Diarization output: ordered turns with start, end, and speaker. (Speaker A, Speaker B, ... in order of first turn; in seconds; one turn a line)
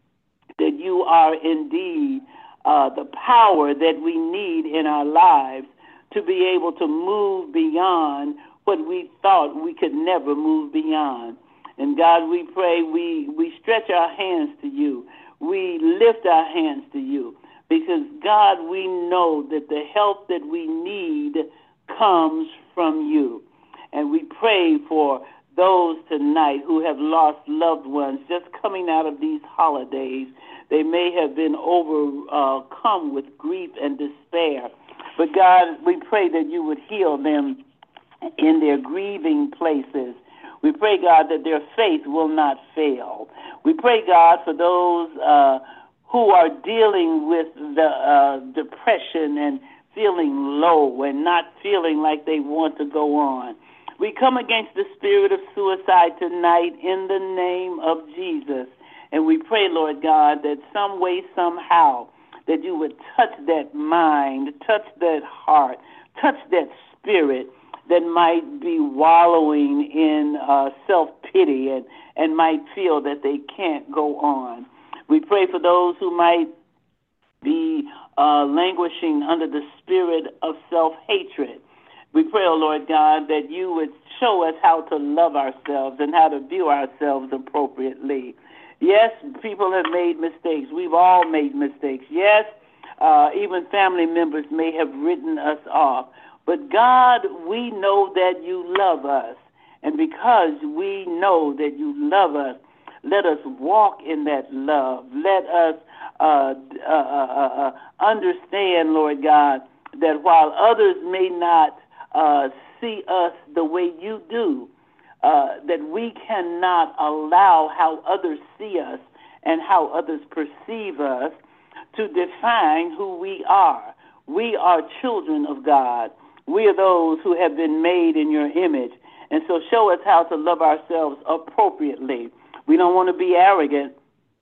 Speaker A: 0.6-37.6
Speaker A: 38.4-76.5
Speaker A: 77.4-92.5
Speaker A: 93.0-114.7
Speaker A: 115.2-121.3
Speaker A: 121.9-133.9